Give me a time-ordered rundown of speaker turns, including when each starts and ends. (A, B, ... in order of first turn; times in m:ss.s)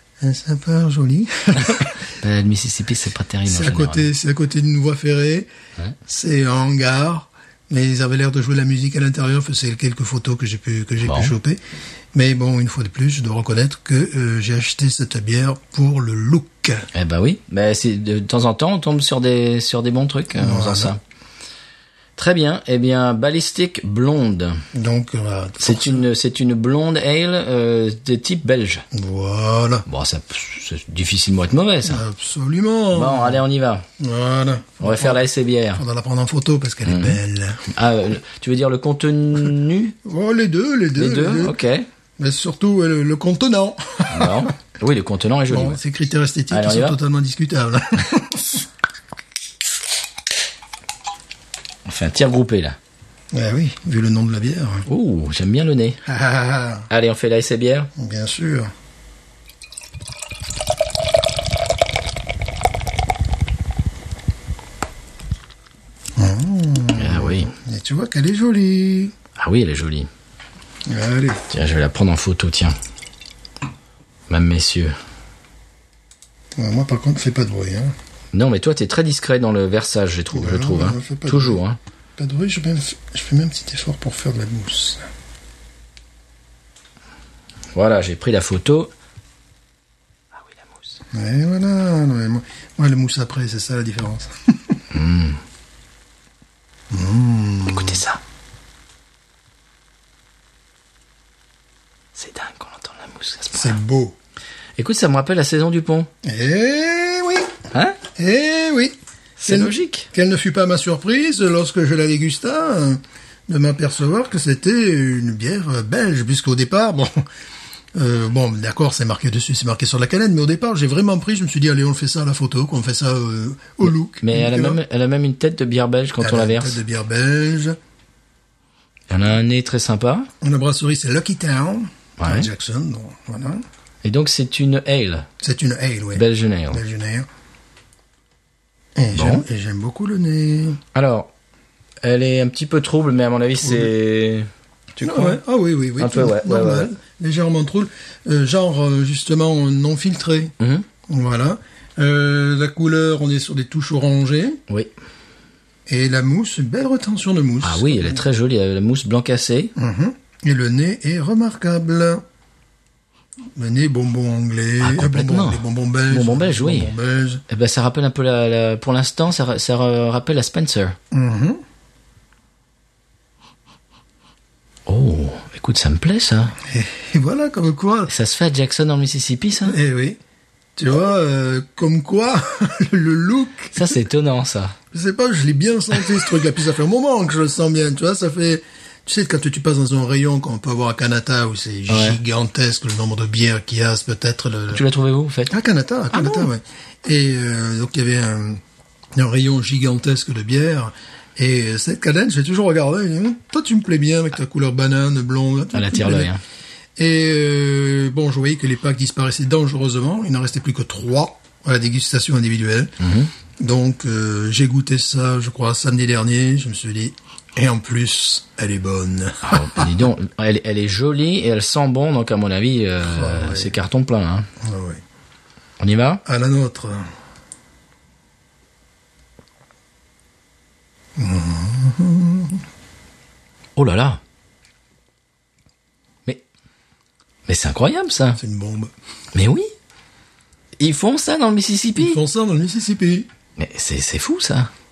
0:00.2-0:02.0 A
0:02.2-0:04.1 B
0:03.5-0:05.5 A
0:06.1-0:11.6 A
0:11.0-0:11.3 B
0:12.1-0:16.9 A
0:16.9-0:21.0 B
0:20.3-0:20.9 A
0:22.2-0:24.6 B
0:24.7-0:26.0 A
0:25.6-0:28.8 B
0:28.9-0:29.8 A
0:29.8-0:32.0 B
0:31.8-0:33.4 A
0:32.9-0:33.8 B
0:34.0-0:37.6 A
0:34.8-0:35.8 B
0:36.8-0:37.2 B
0:37.7-0:40.0 B
0:40.0-0:41.6 A
0:41.0-0:41.9 B
0:42.2-0:44.5 A
0:44.1-0:45.8 B
0:45.5-0:48.6 A
0:46.5-0:47.0 B
0:51.8-0:52.8 B
0:53.3-0:54.8 A
0:54.9-0:56.0 B
0:56.0-0:56.9 A
0:56.9-0:57.9 B
0:58.0-0:58.7 A
1:06.2-1:09.1 A
1:07.0-1:07.5 B
1:09.4-1:10.1 B
1:10.9-1:11.4 A
1:11.5-1:12.8 B
1:14.3-1:15.0 B
1:16.6-1:17.9 A
1:18.3-1:21.8 B
1:20.3-1:21.6 A
1:22.2-1:25.1 A
1:27.7-1:28.9 B
1:31.1-1:34.8 A
1:34.9-1:35.4 B
1:36.9-1:38.0 A
1:37.6-1:38.2 B
1:42.2-1:43.8 B
1:43.5-1:44.2 A
1:44.8-1:46.1 B
1:46.2-1:47.5 A
1:47.7-1:48.0 B
1:48.2-1:57.2 A
1:49.4-1:50.1 B
1:57.9-2:04.8 A
2:04.2-2:06.8 B
2:06.2-2:07.8 A
2:09.1-2:10.3 B
2:10.4-2:13.6 A
2:12.2-2:12.5 B
2:14.0-2:15.3 B
2:15.4-2:17.3 A
2:16.1-2:16.8 B
2:19.0-2:20.8 A
2:19.1-2:19.4 B
2:20.9-2:21.3 B
2:22.0-2:25.4 B
2:23.6-2:23.9 A
2:25.0-2:30.5 A
2:26.0-2:26.9 B
2:30.6-2:30.8 B
2:31.1-2:34.6 A
2:35.9-2:38.2 A
2:37.6-2:39.7 B
2:39.8-2:42.2 A
2:43.5-2:47.4 A
2:44.8-2:46.9 B
2:47.5-2:51.0 B
2:51.1-2:51.6 A
2:54.9-2:56.6 B
2:56.6-2:58.1 A
2:58.1-2:59.8 B
2:59.6-3:00.2 A
3:00.8-3:03.9 A
3:03.7-3:04.8 B
3:04.9-3:14.8 A
3:11.9-3:12.2 B
3:14.7-3:15.5 B
3:15.5-3:18.6 A
3:16.1-3:16.5 B
3:19.1-3:26.3 A
3:25.7-3:26.4 B
3:27.0-3:32.9 A
3:33.0-3:33.3 B
3:33.6-3:40.0 A
3:39.4-3:44.5 B
3:43.0-3:43.7 A
3:44.6-3:45.0 A
3:45.8-3:46.2 B
3:46.2-3:47.1 A
3:51.2-3:52.6 A
3:53.8-3:54.2 B
3:57.5-3:58.4 B
3:58.4-3:58.9 A
3:59.3-3:59.7 B
4:00.8-4:02.2 B
4:02.0-4:03.3 A
4:03.6-4:04.7 B